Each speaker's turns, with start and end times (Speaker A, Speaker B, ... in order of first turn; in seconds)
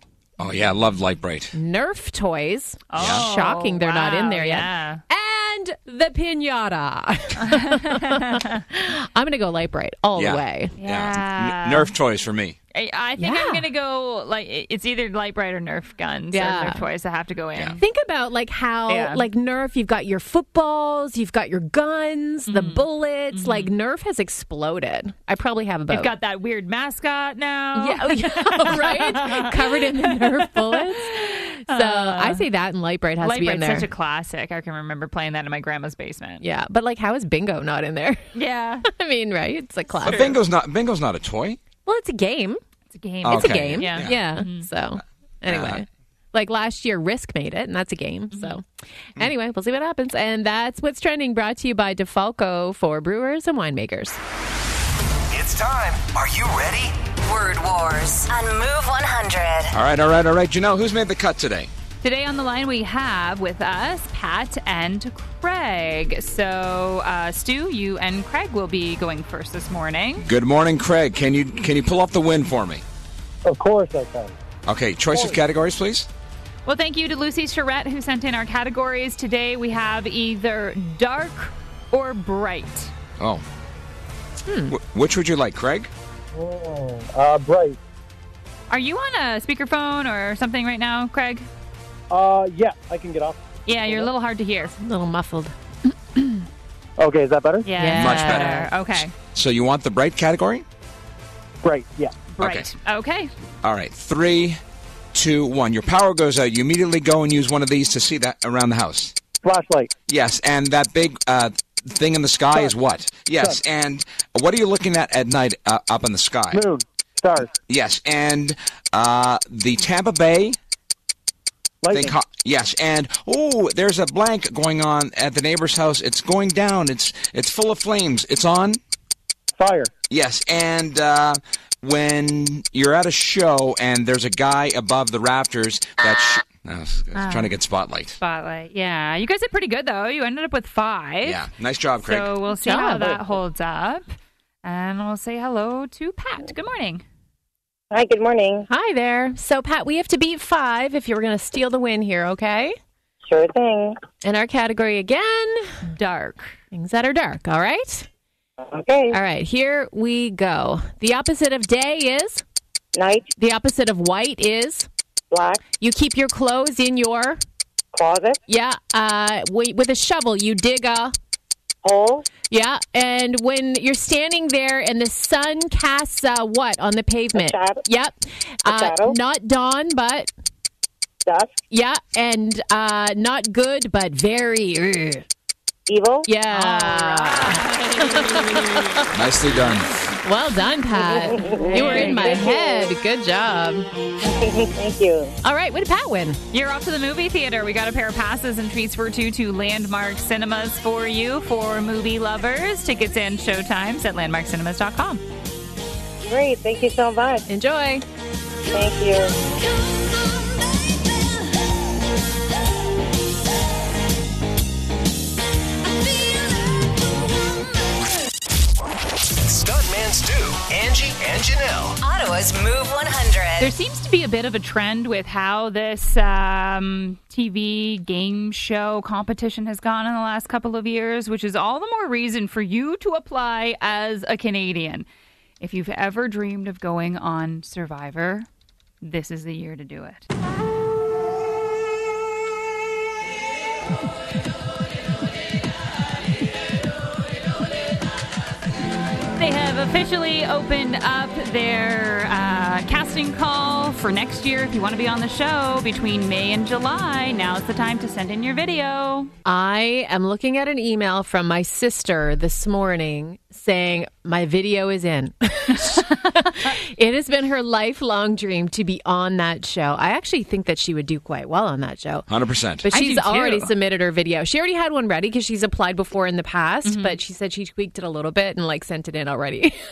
Speaker A: 0.4-1.5, 3.0-3.3, 10.2-12.6, 40.0-41.6, 43.2-44.2, 45.5-45.8, 59.7-61.7, 70.2-72.8, 74.7-76.1, 83.2-83.4, 84.7-85.9, 97.9-98.7, 99.3-100.6, 102.4-102.7, 103.6-104.6, 105.1-109.2, 110.1-116.6, 117.7-120.6, 121.9-128.8, 130.1-138.2, 141.2-142.3, 189.1-189.9, 272.3-272.9
Speaker B: 1.5-10.7, 13.2-13.7, 16.3-16.8, 17.8-26.1, 27.7-33.9, 36.4-38.2, 38.9-40.3, 41.8-42.6, 43.2-48.6, 49.1-54.2, 84.5-84.8, 94.8-96.5, 97.7-98.7, 142.5-143.3, 148.7-152.8, 154.2-155.8, 156.7-158.1, 159.1-162.4, 163.3-164.9, 165.8-167.4, 168.5-171.1, 172.5-180.3, 181.7-185.2, 186.2-189.1, 190.2-193.9, 195.4-196.4, 207.5-208.0, 259.4-272.3, 272.8-279.8
Speaker C: 2.9-5.0, 7.4-8.6, 10.8-11.9, 12.7-17.8, 18.9-19.2, 22.5-23.7, 25.9-32.4, 33.2-36.4, 38.3-38.9, 40.0-40.4, 42.9-44.7, 48.3-48.6, 62.0-70.3, 76.7-82.9, 88.7-91.5, 93.7-94.7, 97.6-99.1, 102.3-103.3, 137.1-137.6, 138.2-141.4, 142.0-147.0, 155.9-156.6, 186.5-189.1, 191.7-192.5, 196.5-205.2, 223.6-235.1, 235.6-238.5, 239.0-240.2, 249.3-259.3, 272.9-273.7, 276.8-277.2
Speaker D: 55.3-57.0, 219.4-222.0
Speaker E: 57.2-59.8, 222.0-223.7
Speaker F: 73.4-74.3, 75.1-75.4, 86.3-87.8, 92.1-94.1, 97.0-97.7, 101.6-102.1, 109.4-109.9, 116.5-117.5, 121.8-122.1, 129.6-129.9
Speaker G: 147.9-148.7, 153.2-154.0, 158.6-159.2, 162.9-163.3, 165.3-165.7, 167.9-168.4, 171.8-172.2, 177.3-177.8, 178.7-179.2, 181.2-181.6, 185.9-186.3, 190.9-192.9, 194.2-195.3, 206.2-207.4, 208.7-209.3